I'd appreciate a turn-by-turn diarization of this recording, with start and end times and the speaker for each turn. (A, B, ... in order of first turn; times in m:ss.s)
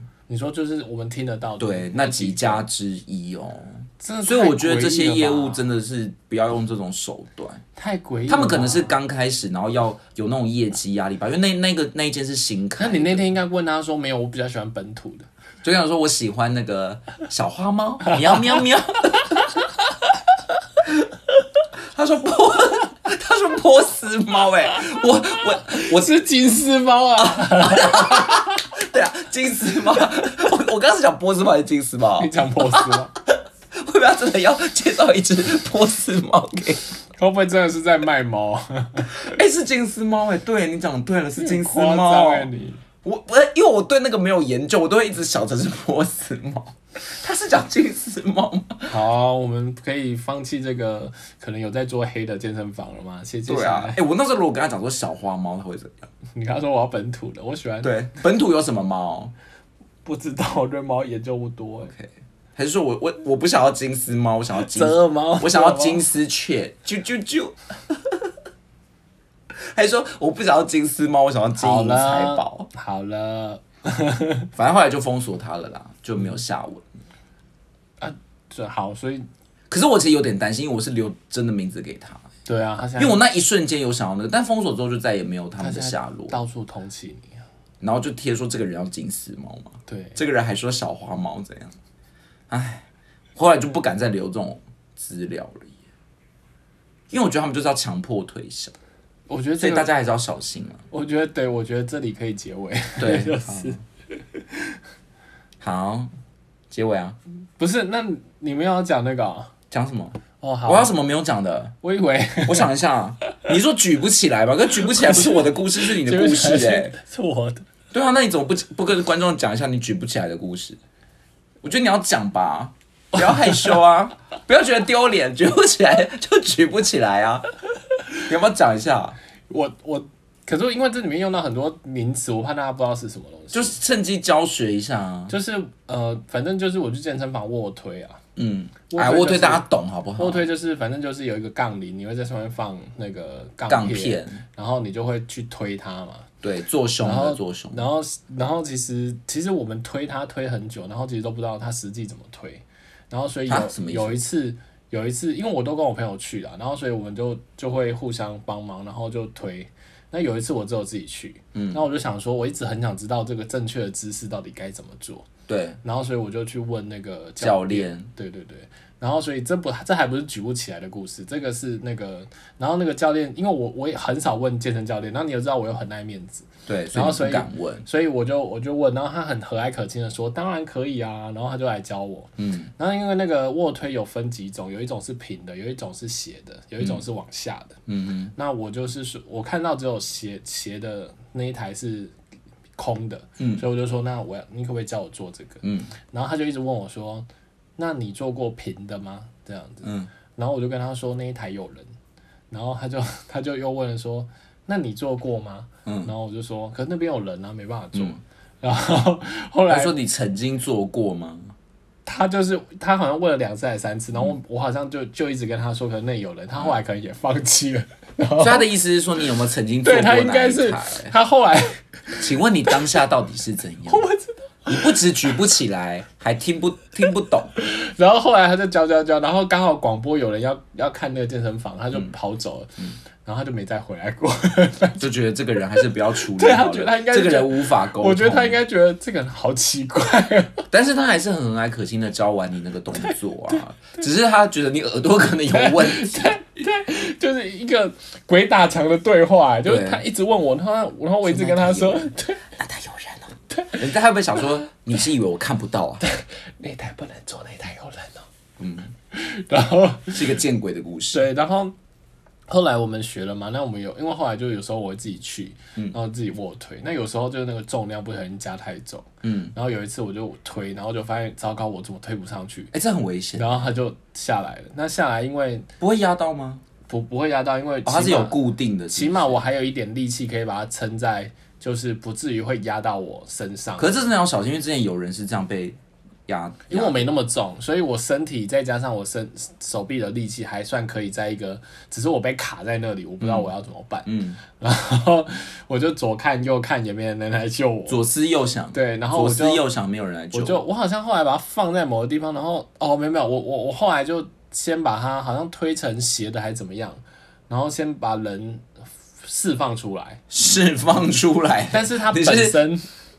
0:00.3-0:02.6 A
0:01.6-0:07.6 B
0:04.0-0:05.6 A
0:07.8-0:08.9 A
0:08.3-0:13.3 B
0:12.8-0:15.3 A
0:15.6-0:19.5 B
0:21.9-0:26.2 B
0:25.6-0:28.5 A
0:27.2-0:33.0 B
0:32.2-0:33.1 A
0:33.8-0:36.8 B
0:37.2-0:39.2 A
0:39.1-0:42.5 B
0:41.4-0:42.8 A
0:43.0-0:48.9 B
0:48.9-0:54.0 A
0:53.5-0:56.1 B
0:56.4-0:57.9 A
0:57.8-0:59.3 B
1:00.0-1:02.0 A
1:02.0-1:08.3 B
1:04.6-1:06.0 A
1:09.5-1:12.7 B
1:11.6-1:14.5 A
1:14.6-1:16.9 B
1:18.0-1:19.3 A
1:19.7-1:22.3 B
1:22.5-1:23.2 A
1:23.0-1:26.4 B
1:25.6-1:27.4 A
1:27.8-1:31.8 B
1:29.9-1:30.2 A
1:32.5-1:35.8 B
1:37.1-1:38.7 B
1:39.3-1:39.9 A
1:39.6-1:40.8 B
1:40.9-1:44.8 A
1:43.0-1:43.8 B
1:45.6-1:46.1 B
1:46.7-1:47.2 B
1:47.6-1:49.5 A
1:49.7-1:51.7 B
1:50.4-1:50.9 A
1:51.8-1:52.7 A
1:52.4-1:56.9 B
1:54.8-1:57.6 A
1:57.9-2:00.8 B
2:01.6-2:07.5 B
2:03.3-2:03.8 A
2:08.2-2:09.2 B
2:09.5-2:13.8 A
2:13.5-2:15.4 B
2:15.3-2:18.2 A
2:18.4-2:20.4 B
2:18.9-2:19.6 A
2:20.2-2:26.3 A
2:23.7-2:24.4 B
2:26.4-2:27.8 B
2:27.0-2:45.3 A
2:33.5-2:34.2 B
2:41.5-2:41.8 B
2:45.5-2:45.8 B
2:45.8-3:07.8 A
2:47.4-2:48.1 B
2:56.7-2:57.9 B
3:02.4-3:02.7 B
3:07.9-3:08.3 B
3:08.4-3:12.2 A
3:12.8-3:17.3 A
3:13.4-3:13.6 B
3:15.6-3:15.9 B
3:17.8-3:21.9 A
3:19.8-3:20.1 B
3:22.5-3:29.9 A
3:25.9-3:26.1 B
3:27.9-3:28.2 B
3:29.7-3:31.5 B
3:32.1-3:38.6 A
3:38.4-3:41.1 B
3:39.8-3:42.2 A
3:42.1-3:44.1 B
3:43.9-3:44.9 A
3:44.7-3:47.5 B
3:47.6-3:55.0 A
3:55.0-3:58.6 B
3:56.3-4:00.6 A
4:00.7-4:06.3 B
4:03.0-4:03.6 A
4:05.5-4:12.5 A
4:09.7-4:10.0 B
4:11.2-4:16.0 B
4:13.5-4:13.8 A
4:16.0-4:18.3 A
4:18.6-4:18.9 B
4:19.1-4:20.4 A
4:20.1-4:21.2 B
4:21.1-4:21.8 A
4:22.5-4:32.7 A
4:29.2-4:29.5 B
4:32.7-4:33.7 B
4:33.4-4:35.7 A
4:35.8-4:36.6 B
4:36.9-4:38.4 A
4:37.8-4:39.4 B
4:38.9-4:44.0 A
4:43.8-4:47.0 B
4:46.7-4:58.0 A
4:53.2-4:53.5 B
4:54.1-4:54.4 B
4:57.9-5:00.6 B
4:58.7-4:59.6 A
5:00.3-5:10.2 A
5:10.3-5:12.6 B
5:11.7-5:12.9 A